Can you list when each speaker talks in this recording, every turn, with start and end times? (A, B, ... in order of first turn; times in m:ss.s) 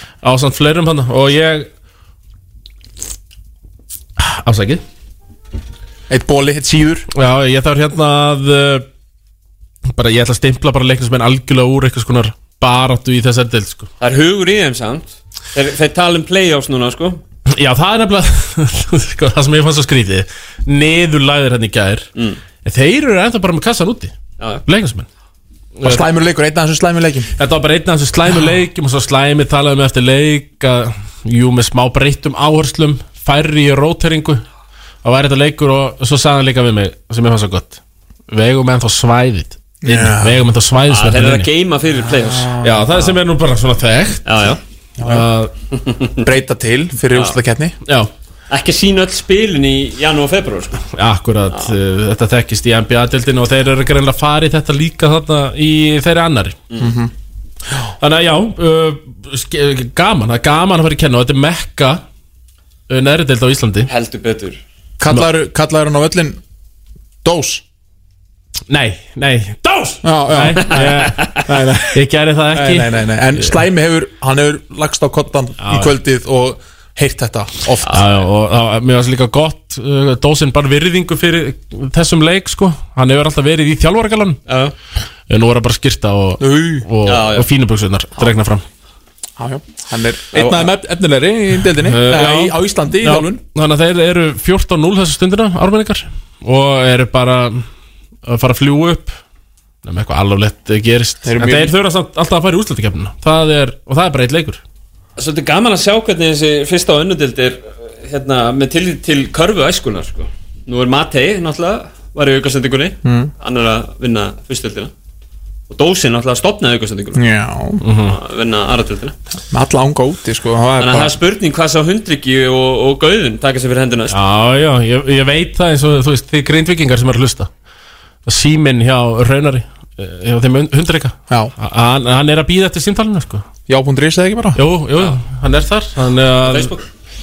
0:00.2-0:01.7 A
0:04.2-0:04.8 A
0:06.1-0:07.1 B
0:07.1-0:08.8 A
0:09.9-0:13.9 A
0:14.0-0:17.2 C
0:17.5-0:22.1 A
0:22.6-0:24.1 A
0:24.6-0:25.1 A
0:25.8-0:26.1 A
0:25.8-0:27.3 B
0:27.4-0:34.4 A
0:35.0-0:41.5 A
0:39.8-0:40.4 B
0:40.9-0:43.1 C
0:42.1-0:42.8 B
0:42.6-0:45.5 A
0:44.2-0:44.6 C
0:45.0-0:45.3 B
0:45.8-0:46.1 C
0:46.2-0:47.7 B
0:48.5-0:50.8 C
0:50.9-0:56.6 A
0:56.8-0:57.1 B
0:58.0-1:02.0 A
1:02.9-1:03.9 A
1:03.9-1:04.6 C
1:05.0-1:06.4 B
1:07.2-1:07.6 B
1:08.7-1:13.5 A
1:10.0-1:12.0 B
1:12.5-1:18.0 B
1:15.6-1:15.9 A
1:17.9-1:24.4 A
1:24.5-1:24.7 C
1:25.3-1:28.6 A
1:26.4-1:26.9 B
1:27.1-1:27.4 C
1:29.4-1:33.4 B
1:31.8-1:37.6 A
1:38.2-1:39.2 A
1:39.8-1:44.6 A
1:41.2-1:41.7 B
1:45.2-1:54.9 C
1:53.0-1:53.3 B
1:55.7-1:57.2 C
1:57.1-1:57.8 B
1:57.8-1:58.2 A
1:58.0-1:59.1 C
1:59.5-2:01.2 B
2:00.8-2:04.2 C
2:04.1-2:07.5 A
2:08.2-2:13.4 A
2:13.7-2:14.6 B
2:14.6-2:16.7 A
2:16.4-2:16.8 C